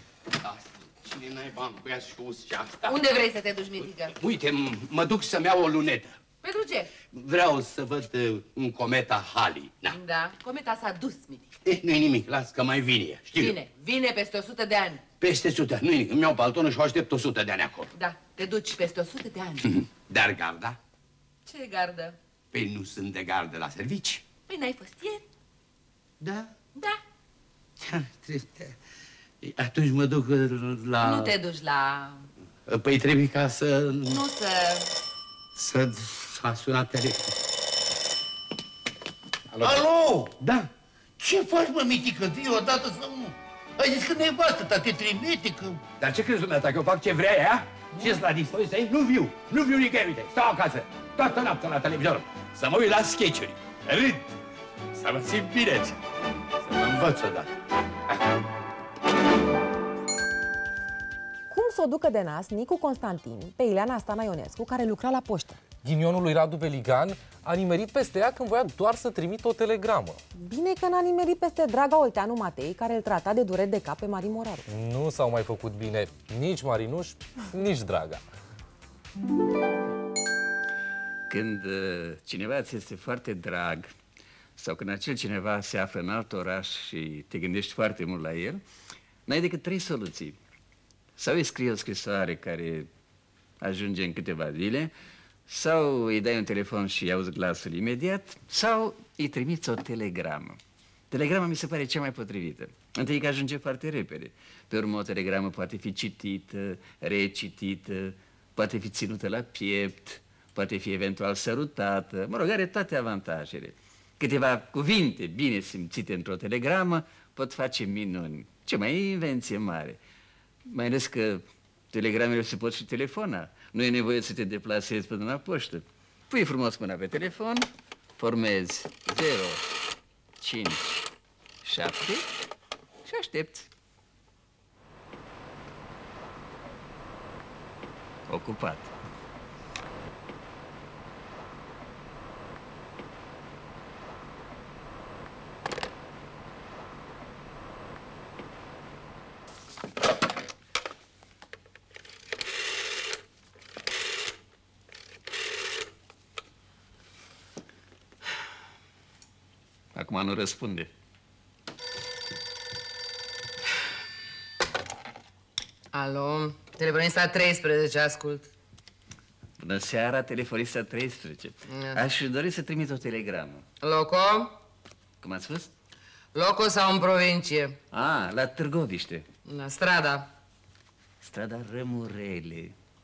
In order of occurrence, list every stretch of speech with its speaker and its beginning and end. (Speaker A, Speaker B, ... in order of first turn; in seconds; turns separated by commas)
Speaker A: 0.4-3.0, Speaker B: 2.9-4.2, Speaker A: 4.1-6.2, Speaker B: 6.4-6.9, Speaker A: 7.1-10.0, Speaker B: 9.9-11.5, Speaker A: 11.7-13.6, Speaker B: 13.3-15.0, Speaker A: 15.2-17.9, Speaker B: 17.9-19.8, Speaker A: 19.8-20.8, Speaker B: 21.5-22.2, Speaker A: 22.5-24.3, Speaker B: 24.5-25.2, Speaker A: 26.2-26.5, Speaker A: 27.8-28.8, Speaker A: 29.4-31.3, Speaker B: 31.0-32.3, Speaker A: 32.7-34.2, Speaker B: 34.1-34.9, Speaker A: 35.6-37.4, Speaker A: 39.5-40.7, Speaker C: 39.6-40.3, Speaker C: 41.2-45.8, Speaker A: 46.0-54.2, Speaker A: 54.9-56.0, Speaker A: 56.6-57.5, Speaker D: 61.5-65.6, Speaker E: 65.8-70.2, Speaker D: 70.3-74.6, Speaker E: 74.7-78.2, Speaker F: 81.3-83.9, Speaker F: 84.6-88.6, Speaker F: 89.3-90.4, Speaker F: 91.2-92.9, Speaker F: 93.6-94.9, Speaker F: 95.5-100.6, Speaker F: 101.1-120.0, Speaker F: 120.7-127.7, Speaker F: 128.2-129.7, Speaker F: 130.4-131.1, Speaker F: 131.6-132.2, Speaker F: 133.1-133.7, Speaker F: 138.3-138.9, Speaker F: 159.9-160.9, Speaker B: 165.9-168.5, Speaker F: 169.6-173.6, Speaker B: 171.7-172.1, Speaker B: 173.8-174.5, Speaker F: 175.2-175.7, Speaker B: 176.3-177.8, Speaker F: 177.9-179.2, Speaker B: 179.5-180.3, Speaker F: 181.2-182.7